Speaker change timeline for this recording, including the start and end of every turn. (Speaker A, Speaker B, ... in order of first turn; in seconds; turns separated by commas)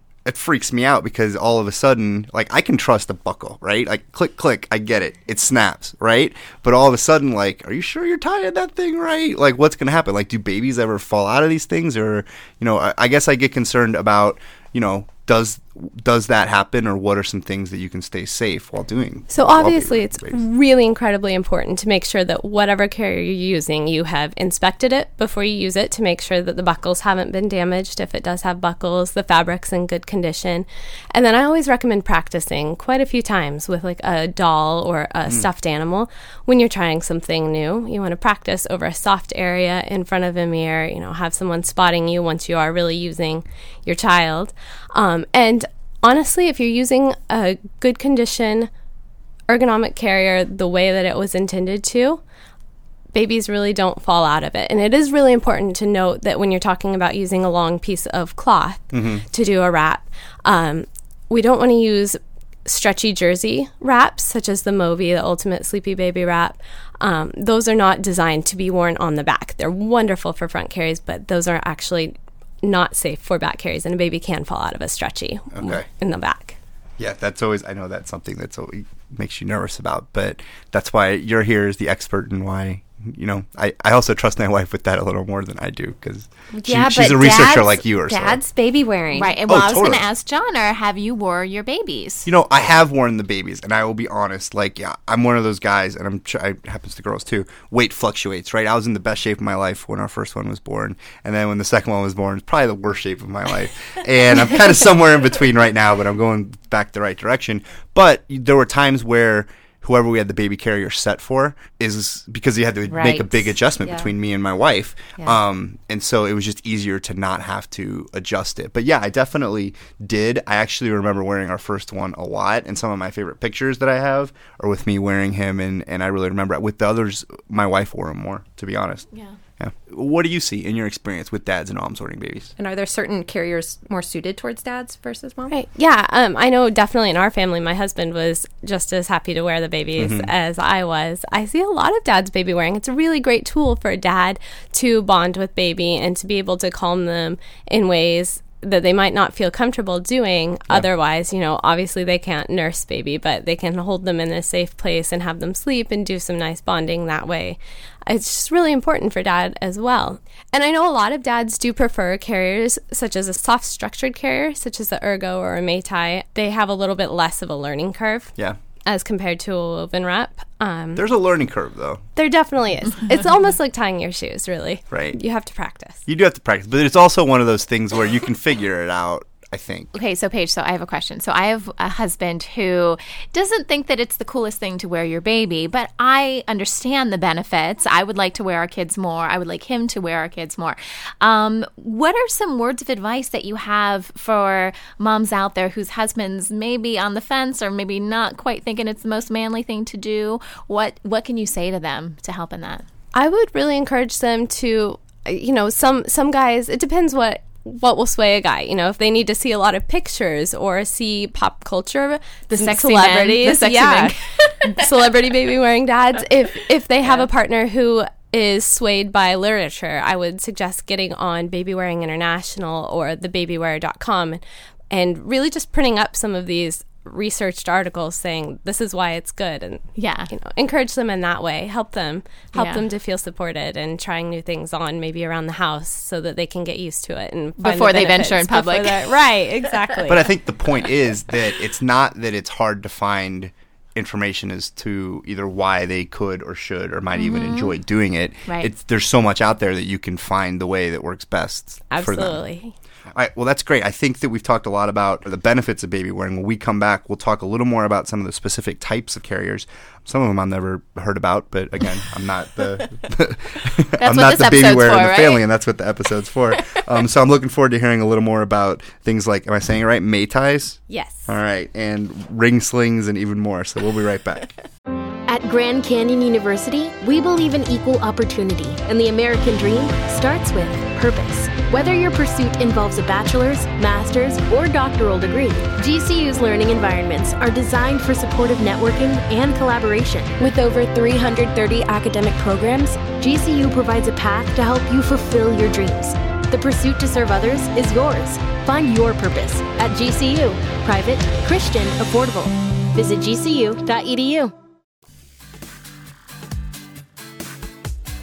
Speaker A: 0.2-20.4, Speaker B: 19.3-48.7, Speaker B: 49.5-52.2, Speaker B: 53.1-76.6, Speaker A: 58.9-59.2, Speaker A: 75.5-75.8, Speaker A: 77.0-88.4, Speaker C: 86.5-89.3, Speaker D: 89.1-92.3, Speaker A: 89.5-90.0, Speaker A: 92.3-132.5, Speaker C: 112.9-113.2, Speaker C: 132.6-135.5, Speaker B: 135.5-168.3, Speaker A: 140.0-140.3, Speaker B: 168.8-171.0, Speaker A: 170.9-172.0, Speaker B: 172.2-176.0, Speaker A: 174.9-175.2, Speaker A: 176.1-179.9, Speaker D: 179.9-202.8, Speaker B: 203.1-240.2, Speaker D: 212.5-214.8, Speaker D: 229.9-230.3, Speaker D: 232.5-232.8, Speaker D: 237.6-239.1, Speaker A: 240.1-252.4, Speaker D: 247.1-247.7, Speaker D: 248.4-248.7, Speaker B: 251.9-252.7, Speaker A: 253.1-274.5, Speaker D: 264.0-265.4, Speaker B: 270.9-271.3, Speaker E: 275.3-304.5